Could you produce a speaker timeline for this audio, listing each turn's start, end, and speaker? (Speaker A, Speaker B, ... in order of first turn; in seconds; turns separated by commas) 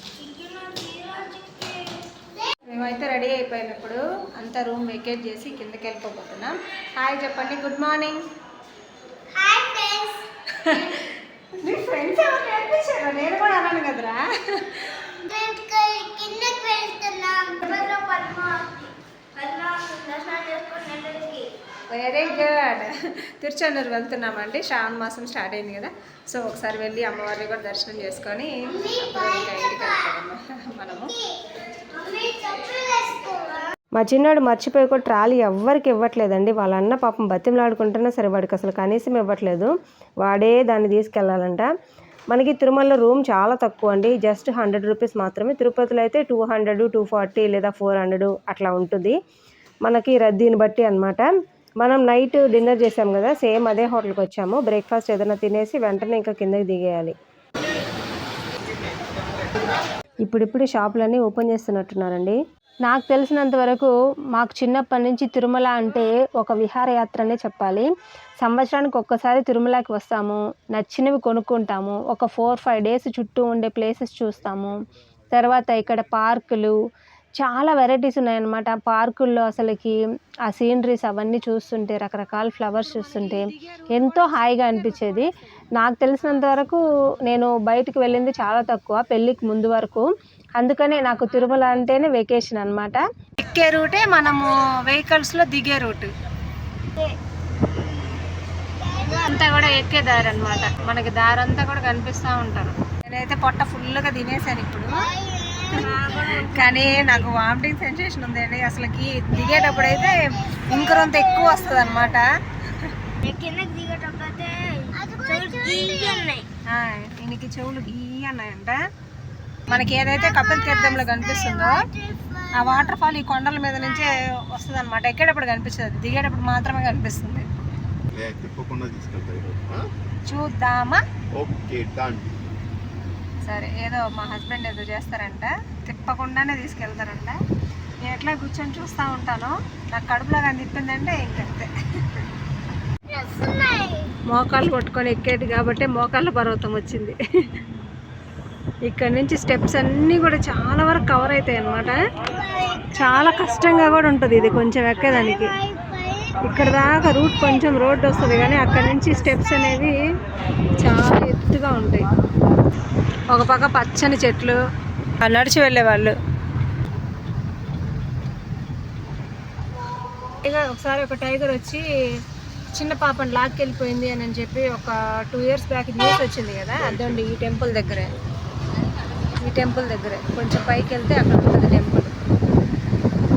Speaker A: 0.2-2.5, Speaker B: 2.7-8.2, Speaker A: 9.3-10.9, Speaker B: 11.6-14.9, Speaker A: 15.3-21.5, Speaker B: 21.9-31.1, Speaker A: 28.7-30.0, Speaker A: 31.9-33.7, Speaker B: 34.0-41.7, Speaker B: 42.3-49.2, Speaker B: 49.8-57.1, Speaker B: 60.2-67.9, Speaker B: 68.4-74.8, Speaker B: 75.3-76.8, Speaker B: 77.4-80.0, Speaker B: 80.5-96.1, Speaker C: 97.6-98.3, Speaker A: 98.8-100.1, Speaker B: 99.0-105.1, Speaker A: 104.9-107.2, Speaker B: 105.7-112.3, Speaker A: 109.4-112.2, Speaker A: 113.2-116.5, Speaker B: 116.7-118.8, Speaker B: 119.7-121.8, Speaker A: 119.7-122.9, Speaker B: 122.5-127.5, Speaker C: 128.1-129.9, Speaker B: 130.3-131.0, Speaker C: 131.3-132.4, Speaker B: 133.4-137.4, Speaker B: 138.0-141.7, Speaker A: 143.1-144.1, Speaker B: 144.3-147.2, Speaker B: 148.9-152.0, Speaker A: 152.2-153.3, Speaker B: 152.9-155.5, Speaker A: 155.1-157.5, Speaker B: 156.4-160.0, Speaker A: 158.2-159.9, Speaker B: 160.8-162.1, Speaker B: 163.3-164.6, Speaker B: 165.2-166.2, Speaker B: 170.4-171.8, Speaker B: 172.7-178.1, Speaker C: 176.8-177.2, Speaker B: 179.4-182.3